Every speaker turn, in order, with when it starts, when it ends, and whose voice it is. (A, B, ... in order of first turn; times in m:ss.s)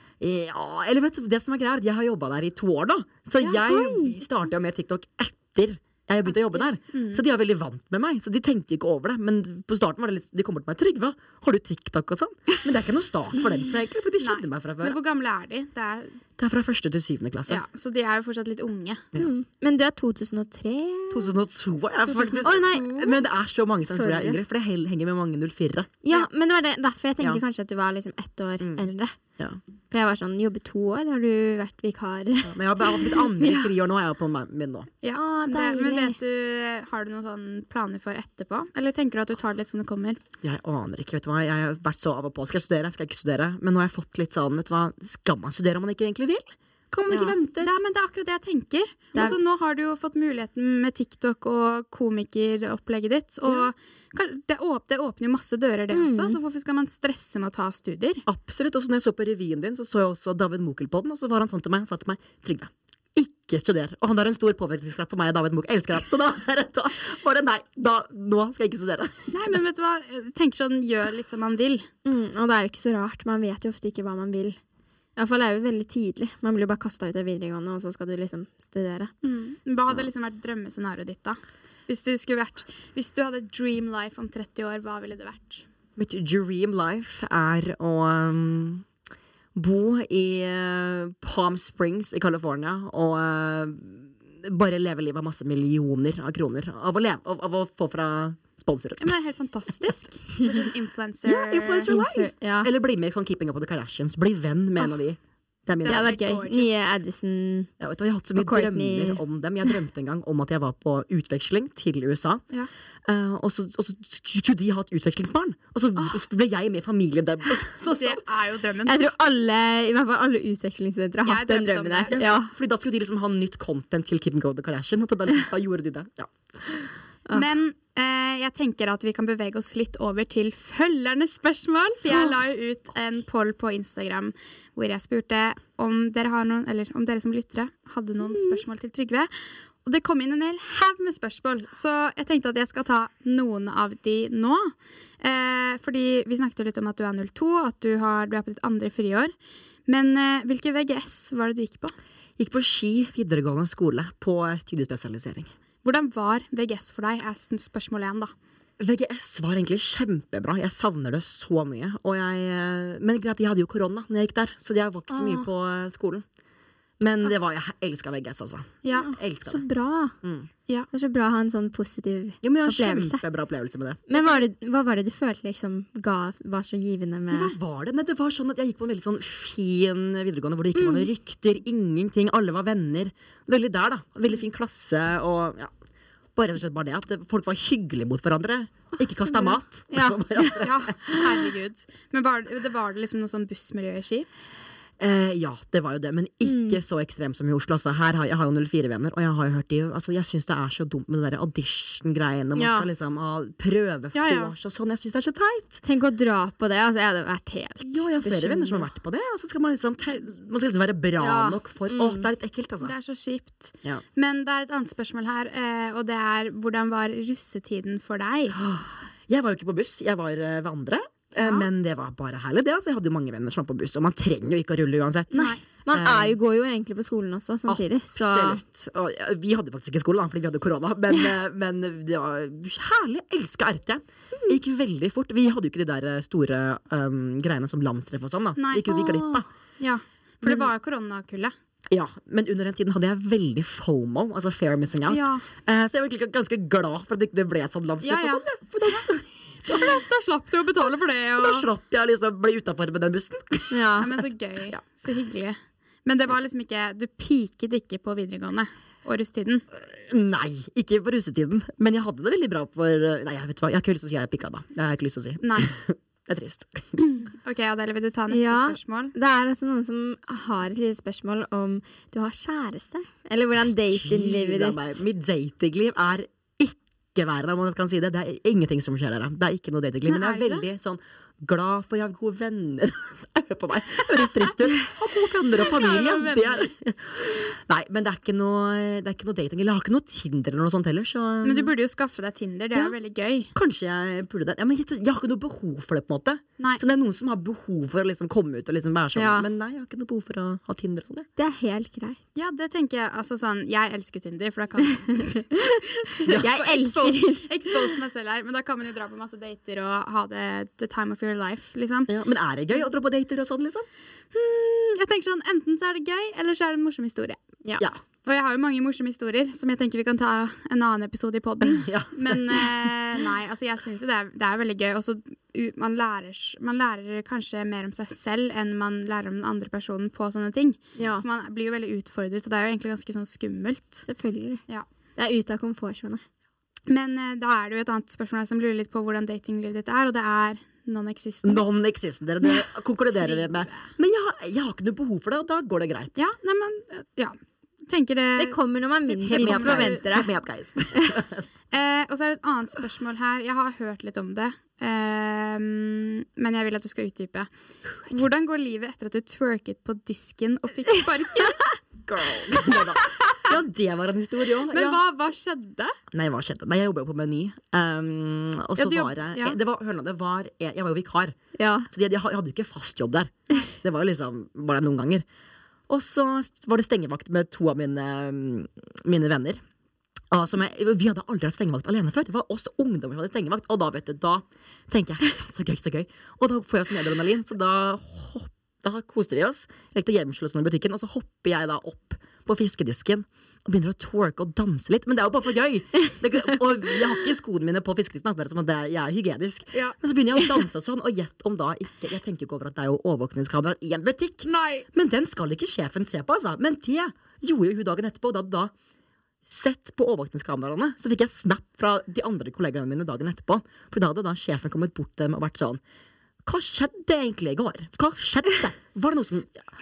0:00.2-0:15.0 A
0:03.4-0:03.7 B
0:03.6-0:04.1 C
0:04.2-0:04.5 B
0:06.3-0:07.2 B
0:14.2-0:16.2 B
0:16.4-0:17.6 A
0:17.5-0:19.0 B
0:19.2-0:21.3 C
0:21.1-0:25.9 A
0:22.0-0:23.2 B
0:22.4-0:23.1 C
0:23.9-0:24.4 C
0:26.0-0:29.2 C
0:28.6-0:29.6 A
0:29.9-0:33.7 C
0:32.5-0:34.9 A
0:35.0-0:40.2 B
0:35.1-0:36.2 C
0:40.4-0:47.8 A
0:47.6-0:58.2 B
0:55.9-0:56.4 C
0:58.3-1:09.4 A
1:09.3-1:11.9 B
1:12.0-1:14.6 C
1:15.2-1:19.1 C
1:19.2-1:25.7 B
1:26.0-1:28.8 A
1:29.6-1:39.1 A
1:39.0-1:42.0 B
1:41.2-1:46.1 A
1:41.8-1:42.7 C
1:45.8-1:46.9 B
1:45.9-1:47.7 C
1:47.8-1:52.4 A
1:48.4-1:49.2 C
1:53.1-1:58.2 A
1:57.8-1:59.0 B
1:58.9-2:02.5 C
2:01.2-2:02.2 B
2:02.1-2:06.7 A
2:07.3-2:19.3 B
2:18.3-2:18.6 C
2:19.8-2:29.3 B
2:29.9-2:31.9 B
2:32.4-2:35.5 A
2:35.8-2:38.3 B
2:38.8-2:46.2 A
2:45.1-2:45.5 C
2:47.0-2:49.6 A
2:48.8-2:49.1 B
2:48.9-2:50.1 C
2:50.2-2:50.5 A
2:50.9-2:53.2 C
2:52.4-2:54.1 A
2:54.1-2:57.6 C
2:54.1-2:54.4 B
2:57.3-3:05.7 A
3:00.8-3:01.1 C
3:06.4-3:10.9 A
3:09.0-3:10.5 C
3:10.6-3:14.3 B
3:15.0-3:25.8 A
3:16.4-3:16.8 C
3:22.6-3:22.9 C
3:24.1-3:24.5 B
3:25.8-3:28.9 C
3:27.8-3:33.0 A
3:31.2-3:32.3 C
3:32.8-3:38.6 B
3:38.5-3:46.4 A
3:41.4-3:41.7 B
3:45.3-3:45.6 B
3:45.3-3:48.6 C
3:47.7-3:59.5 A
3:58.6-4:01.6 B
4:00.4-4:00.7 A
4:01.9-4:09.8 A
4:05.1-4:05.5 B
4:08.0-4:09.2 B
4:09.7-4:11.7 B
4:11.4-4:14.2 A
4:13.7-4:14.1 C
4:14.0-4:19.6 B
4:19.7-4:27.1 A
4:25.4-4:25.7 B
4:27.0-4:29.1 B
4:28.3-4:35.0 C
4:34.0-4:51.7 A
4:40.1-4:40.7 B
4:45.6-4:46.7 B
4:51.4-4:53.5 B
4:53.5-5:01.3 A
4:59.2-4:59.5 C
5:01.4-5:02.2 C
5:02.4-5:12.1 B
5:06.2-5:07.5 C
5:12.1-5:13.9 A
5:14.3-5:17.4 B
5:18.2-5:34.1 B
5:21.6-5:22.7 A
5:31.0-5:31.2 C
5:34.1-5:34.6 C
5:35.2-5:36.2 C
5:36.9-5:41.7 B
5:41.4-5:46.2 A
5:43.1-5:43.9 B
5:46.2-5:47.4 B
5:47.9-5:50.1 B
5:48.4-5:50.3 C
5:49.2-5:51.4 A
5:51.7-5:57.5 B
5:58.1-6:01.6 B
6:02.1-6:05.0 A
6:02.6-6:03.0 B
6:04.7-6:06.0 B
6:06.1-6:11.4 A
6:08.8-6:09.6 B
6:11.6-6:11.9 C
6:11.9-6:15.2 A
6:15.9-6:19.6 A
6:20.3-6:48.7 A
6:44.4-6:44.9 B
6:49.5-6:55.8 A
6:56.5-6:59.6 A